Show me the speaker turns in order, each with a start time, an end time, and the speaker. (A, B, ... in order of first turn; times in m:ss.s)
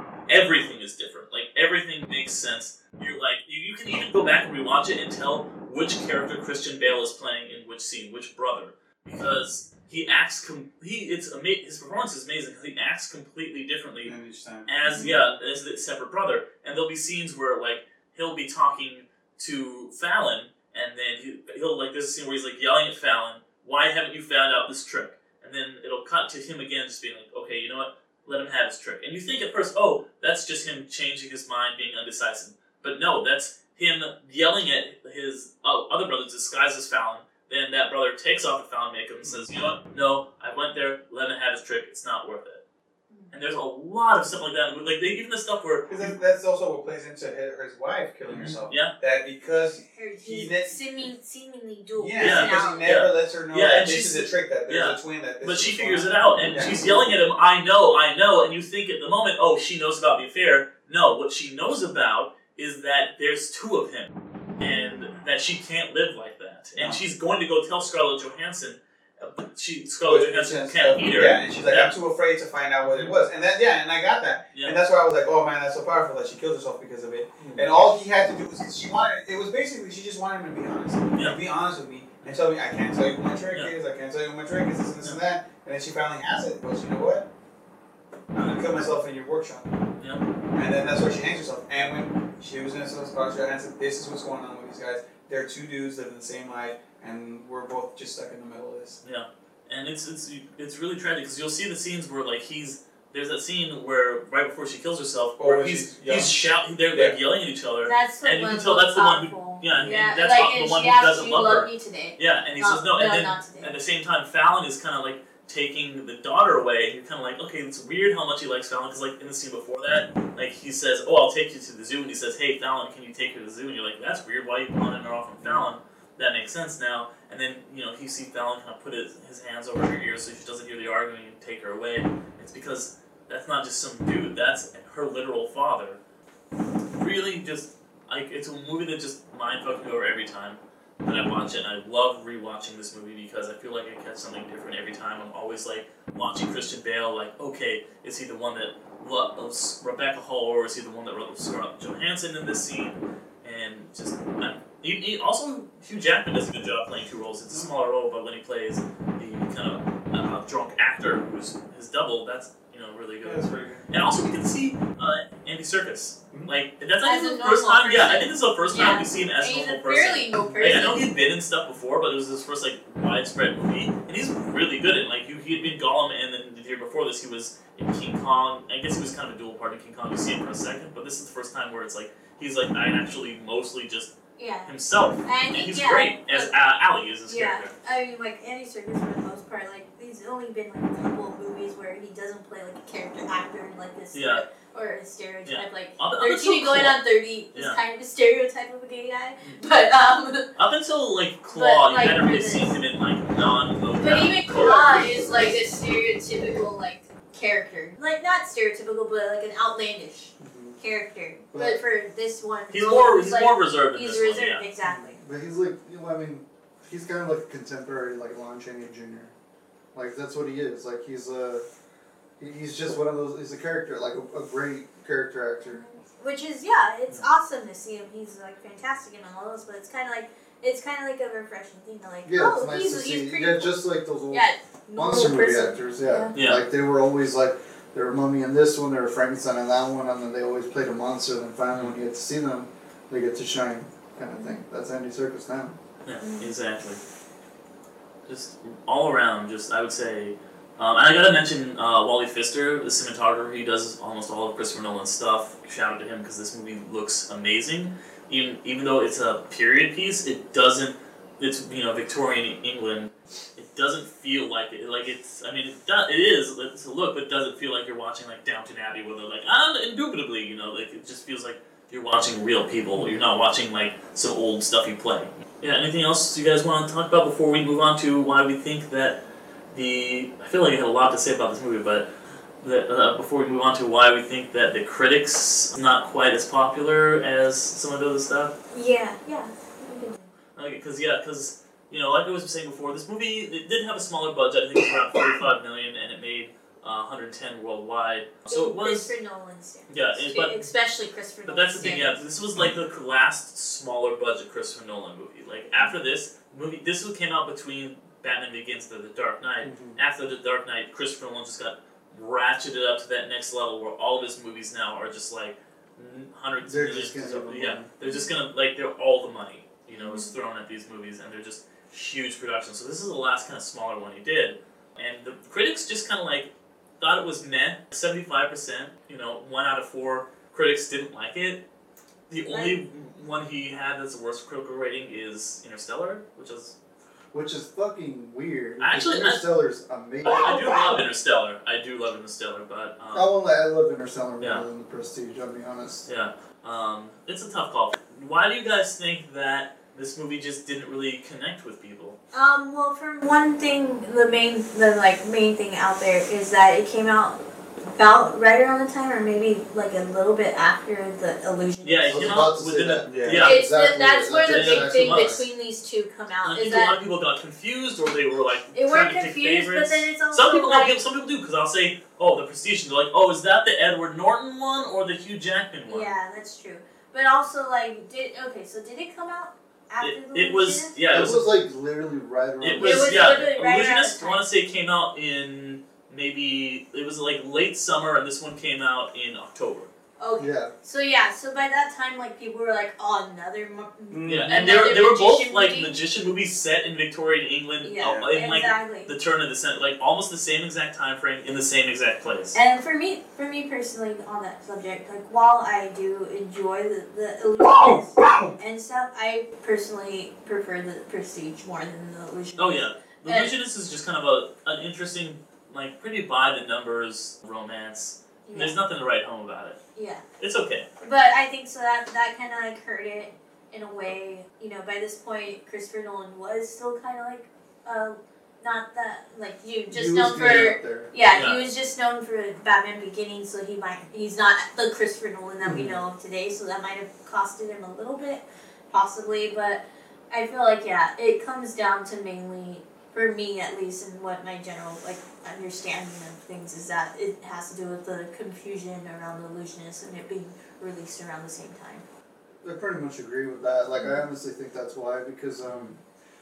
0:00.3-0:14.1 A
0:14.1-0:15.4 B
0:14.7-0:42.6 A
0:14.8-0:15.1 C
0:43.1-0:43.3 C
0:43.3-0:46.2 A
0:45.9-0:50.8 B
0:48.3-0:48.9 A
0:49.8-0:52.9 C
0:52.0-0:56.8 B
0:52.2-1:12.0 A
1:04.5-1:05.1 C
1:06.8-1:07.0 B
1:10.0-1:27.3 B
1:12.8-1:13.2 A
1:17.4-1:17.7 A
1:21.1-1:21.4 A
1:28.3-1:29.7 B
1:30.0-1:30.2 A
1:30.5-1:39.0 B
1:39.0-2:16.0 A
1:45.4-1:46.4 B
1:47.8-1:53.7 C
2:16.9-3:04.1 A
2:43.2-2:43.8 B
2:47.0-2:51.1 C
3:04.4-3:04.7 C
3:04.7-3:07.7 A
3:05.2-3:06.5 C
3:07.3-3:20.5 C
3:14.1-3:14.4 A
3:15.5-3:17.0 A
3:20.6-3:24.8 A
3:21.5-3:22.8 C
3:24.0-3:35.2 C
3:24.6-3:25.1 D
3:30.4-3:30.8 D
3:31.5-3:31.8 D
3:32.7-3:34.6 A
3:34.8-3:39.3 D
3:39.9-3:41.6 D
3:42.4-3:45.8 D
3:45.6-3:53.7 C
3:52.2-4:05.8 D
3:54.3-3:56.3 C
3:56.4-3:56.6 A
4:04.3-4:04.6 C
4:06.0-4:07.0 A
4:06.2-4:06.5 C
4:08.3-4:39.2 A
4:39.7-4:42.1 A
4:42.6-4:48.5 A
4:48.7-4:50.3 C
4:50.6-4:59.1 A
4:58.5-5:02.2 C
4:59.9-5:00.7 A
5:01.5-5:31.6 A
5:09.6-5:10.0 D
5:16.6-5:17.9 D
5:18.0-5:18.3 C
5:19.9-5:20.3 C
5:32.3-5:36.8 A
5:32.5-5:32.8 C
5:37.3-5:41.0 D
5:38.8-5:39.5 A
5:40.2-5:43.3 A
5:43.1-5:46.1 D
5:44.4-5:44.6 A
5:46.1-5:52.2 A
5:52.3-6:02.4 C
6:01.8-6:03.6 A
6:02.1-6:05.4 D
6:03.1-6:03.5 B
6:03.4-6:07.0 C
6:04.5-6:05.4 A
6:06.4-6:16.1 A
6:08.7-6:11.0 C
6:15.9-6:21.0 C
6:20.0-6:21.5 A
6:21.1-6:23.5 D
6:22.6-6:29.9 A
6:22.8-6:24.4 C
6:30.2-6:35.9 C
6:30.4-6:30.7 D
6:34.1-6:34.7 B
6:34.3-6:42.6 A
6:37.8-6:39.1 C
6:38.0-6:38.3 B
6:42.5-6:53.5 C
6:47.7-6:48.5 B
6:52.6-6:59.8 A
6:58.4-6:58.8 C
7:00.0-7:00.2 C
7:00.4-7:00.9 A
7:01.0-7:32.0 C
7:09.9-7:11.1 D
7:11.3-7:11.6 A
7:15.6-7:15.9 D
7:32.6-7:36.0 D
7:34.0-7:34.2 C
7:35.6-7:35.9 A